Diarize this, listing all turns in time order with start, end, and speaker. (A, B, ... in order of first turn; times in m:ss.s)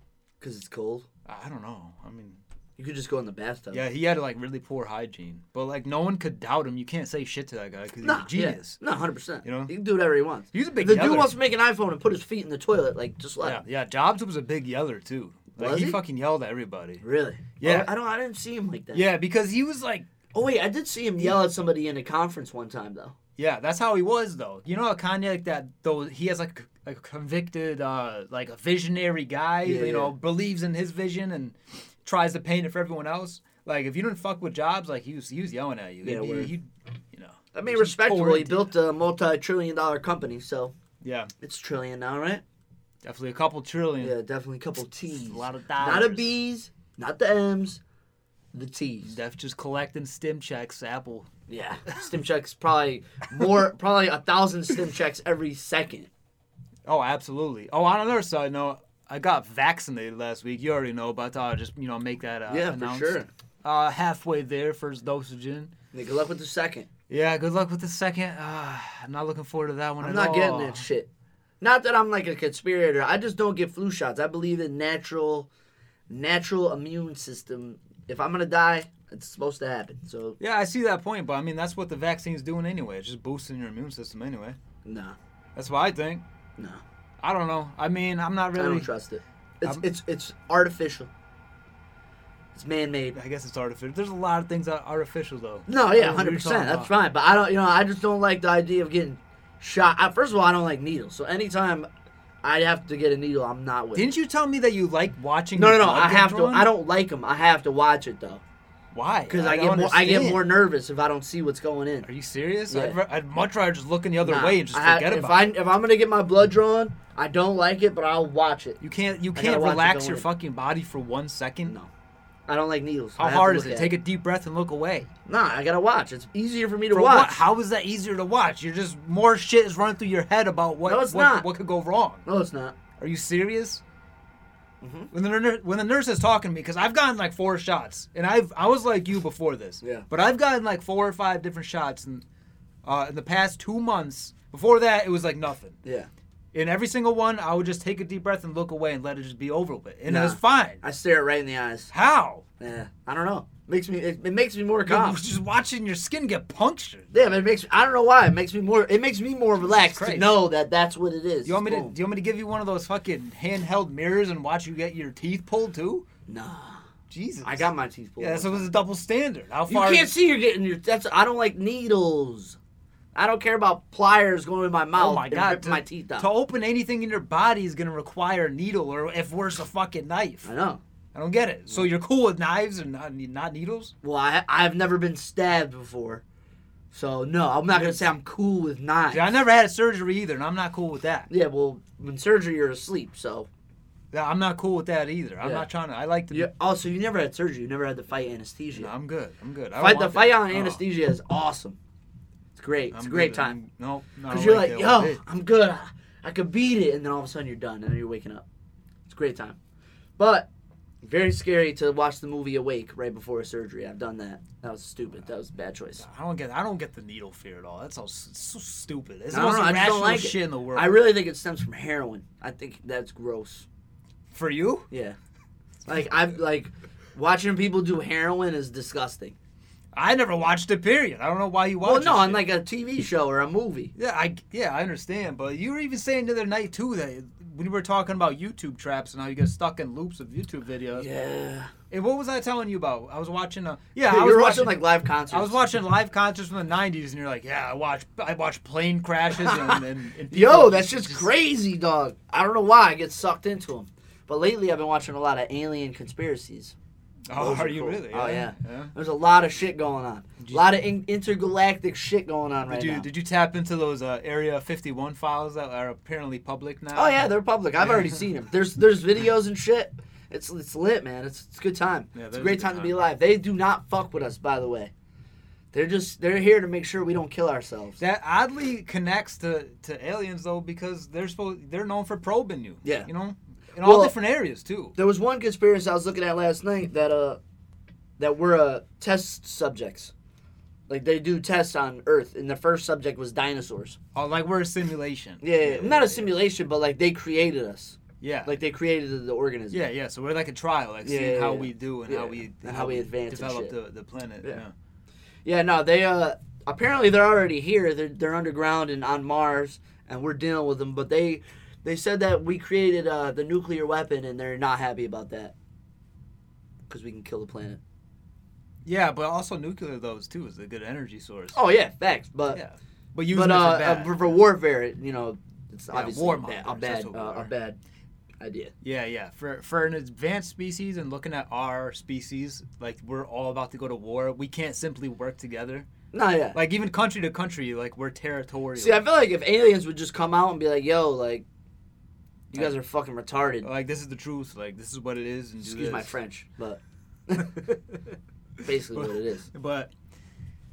0:00.4-0:01.1 A
0:01.2-0:02.4 B
0:02.8-0:03.8 A
0:03.7-0:08.8 B
0:08.0-0:13.6 A
0:09.4-0:09.7 B
0:10.5-0:11.3 B
0:13.4-0:17.0 B
0:15.6-0:16.0 A
0:17.0-0:19.0 A
0:17.6-0:17.9 B
0:18.9-0:20.1 B
0:20.3-0:23.1 A
0:23.4-0:38.7 B
0:29.6-0:30.1 A
0:36.0-0:36.5 A
0:37.5-0:40.7 A
0:41.0-0:41.3 B
0:41.4-0:42.4 A
0:43.0-0:44.2 B
0:44.0-0:47.8 A
0:45.2-0:46.3 B
0:48.5-0:49.2 A
0:49.0-0:51.3 B
0:51.5-0:56.1 A
0:56.8-1:05.7 B
1:02.5-1:03.3 A
1:05.9-1:06.9 A
1:07.1-1:10.8 B
1:10.0-1:11.1 A
1:11.6-1:15.5 A
1:16.1-1:20.4 A
1:20.4-1:24.6 B
1:24.8-1:25.2 A
1:25.5-1:26.2 B
1:27.2-1:28.9 B
1:28.6-1:31.1 A
1:32.5-1:33.2 A
1:33.1-1:36.9 B
1:35.7-1:41.9 A
1:42.4-1:44.1 A
1:43.9-1:46.7 B
1:45.6-1:48.4 A
1:48.9-1:50.5 B
1:49.3-1:52.1 A
1:52.0-1:55.5 B
1:52.7-1:53.0 A
1:54.2-1:58.8 A
1:58.8-2:01.7 B
1:59.3-2:00.2 A
2:02.5-2:03.9 A
2:03.2-2:05.1 B
2:05.3-2:07.5 A
2:06.9-2:12.2 B
2:10.8-2:11.5 A
2:12.2-2:12.8 A
2:13.0-2:13.8 B
2:14.8-2:15.1 A
2:15.1-2:22.2 B
2:22.8-2:25.8 B
2:25.8-2:26.1 A
2:26.5-2:30.8 B
2:30.1-2:31.9 A
2:31.9-2:32.4 B
2:32.6-2:35.2 A
2:34.8-2:37.1 B
2:37.1-2:41.9 A
2:39.6-2:40.4 B
2:41.4-2:46.0 B
2:46.3-2:46.8 A
2:47.1-2:50.1 B
2:47.4-2:48.7 A
2:49.7-2:52.6 A
2:53.1-2:56.3 A
2:55.0-3:00.5 B
3:00.4-3:00.8 A
3:01.1-3:03.9 B
3:04.0-3:06.2 A
3:06.9-3:09.3 A
3:07.7-3:08.1 B
3:09.1-3:11.3 B
3:11.3-3:13.5 A
3:14.1-3:16.5 B
3:16.3-3:18.9 A
3:18.7-3:20.8 B
3:19.8-3:21.8 A
3:22.6-3:23.6 A
3:22.9-3:25.2 B
3:24.3-3:28.4 A
3:29.1-3:29.6 A
3:30.2-3:30.5 A
3:31.0-3:36.0 A
3:36.0-3:40.9 B
3:39.3-3:43.6 A
3:44.3-3:44.9 B
3:44.9-3:45.2 A
3:45.8-3:49.4 A
3:49.9-3:52.5 B
3:51.8-3:53.9 A
3:54.0-4:01.1 B
4:00.9-4:01.7 A
4:01.9-4:11.3 B
4:04.0-4:05.7 A
4:09.4-4:16.7 A
4:17.3-4:18.9 B
4:17.3-4:23.1 A
4:20.4-4:20.7 B
4:22.7-4:27.3 B
4:26.9-4:34.9 A
4:27.8-4:28.2 B
4:32.1-4:33.0 B
4:35.7-4:38.0 A
4:38.0-4:45.0 B
4:43.8-4:44.1 A
4:45.0-4:47.4 A
4:48.2-4:50.1 A
4:50.9-4:54.0 A
4:54.1-4:56.3 B
4:55.4-4:59.8 A
4:58.2-4:58.6 B
4:59.7-5:04.7 B
5:01.0-5:03.7 A
5:05.4-5:15.5 A
5:16.9-5:17.8 A
5:18.8-5:21.6 B
5:21.5-5:22.6 A
5:22.5-5:24.3 B
5:23.3-5:27.8 A
5:25.9-5:27.5 B
5:28.4-5:28.7 A
5:28.8-5:35.9 B
5:36.1-5:36.6 A
5:36.5-5:39.0 B
5:38.8-5:41.4 A
5:42.5-5:43.7 A
5:43.6-5:46.1 B
5:45.6-5:47.7 A
5:47.4-5:48.1 B
5:48.6-5:49.5 A
5:48.7-5:49.9 B